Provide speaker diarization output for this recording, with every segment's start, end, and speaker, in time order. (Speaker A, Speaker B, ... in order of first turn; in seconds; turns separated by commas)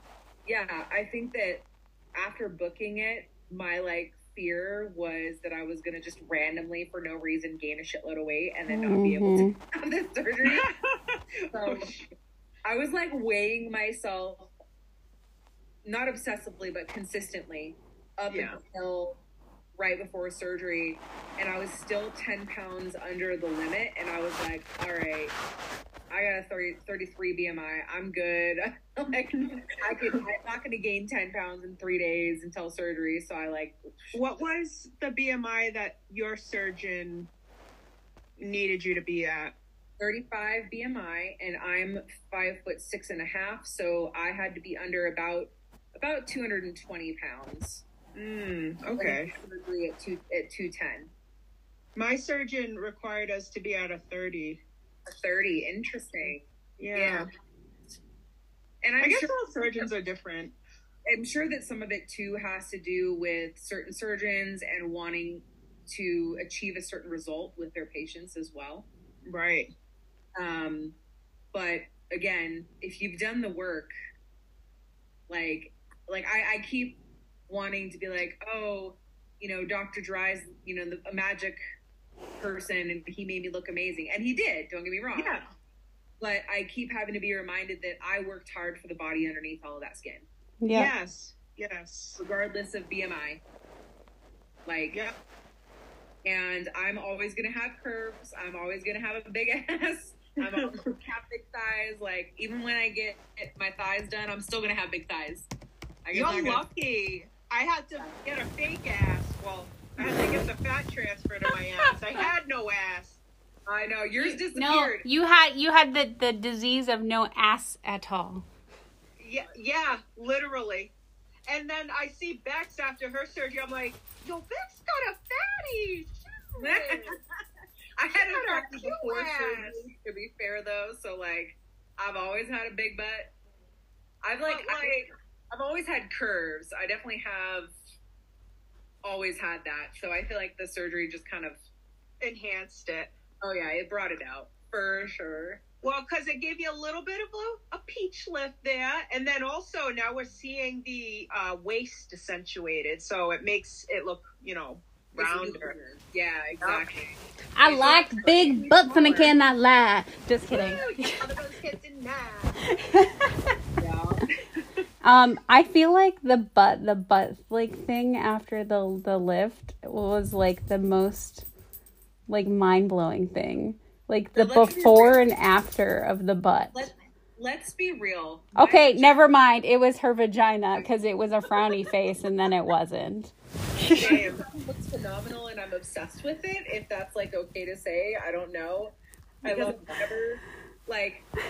Speaker A: 0.5-10.7, Speaker B: 8.7-9.5, Speaker C: 10.5-12.1, Speaker A: 11.5-11.9, Speaker A: 12.7-14.5, Speaker A: 15.8-19.2, Speaker C: 18.3-18.6, Speaker A: 19.8-25.4, Speaker A: 26.1-33.8, Speaker C: 29.4-30.2, Speaker C: 34.1-37.3, Speaker C: 38.4-39.5, Speaker A: 40.0-47.8, Speaker C: 48.1-49.3, Speaker A: 49.0-51.1, Speaker C: 52.0-54.6, Speaker A: 55.1-57.3, Speaker C: 56.8-57.3, Speaker A: 58.8-59.3, Speaker C: 59.0-60.5, Speaker A: 61.1-68.9, Speaker C: 69.3-69.7, Speaker A: 70.4-71.0, Speaker A: 71.5-73.9, Speaker A: 75.3-81.6, Speaker A: 82.4-85.4, Speaker C: 85.2-85.5, Speaker A: 86.2-90.3, Speaker B: 90.6-90.9, Speaker C: 90.7-92.2, Speaker A: 92.2-93.4, Speaker A: 94.7-95.0, Speaker A: 96.2-105.5, Speaker A: 106.0-106.6, Speaker C: 106.1-113.2, Speaker A: 110.0-110.4, Speaker A: 111.8-112.3, Speaker A: 113.7-115.1, Speaker B: 114.5-118.5, Speaker C: 119.2-120.9, Speaker C: 121.5-127.2, Speaker A: 126.6-127.2, Speaker A: 128.0-133.3, Speaker C: 128.1-129.9, Speaker A: 134.2-137.8, Speaker C: 134.5-135.1, Speaker A: 139.1-141.6, Speaker C: 142.2-143.1, Speaker A: 143.4-145.6, Speaker C: 145.8-155.8, Speaker A: 155.2-159.3, Speaker B: 157.6-161.2, Speaker C: 160.5-162.6, Speaker A: 160.6-161.0, Speaker B: 162.8-163.5, Speaker A: 163.8-164.2, Speaker B: 165.0-171.5, Speaker B: 172.3-176.9, Speaker A: 174.3-175.2, Speaker A: 176.7-179.2, Speaker B: 178.6-184.2, Speaker C: 183.9-184.4, Speaker A: 183.9-188.9, Speaker C: 189.4-189.9, Speaker A: 189.4-191.3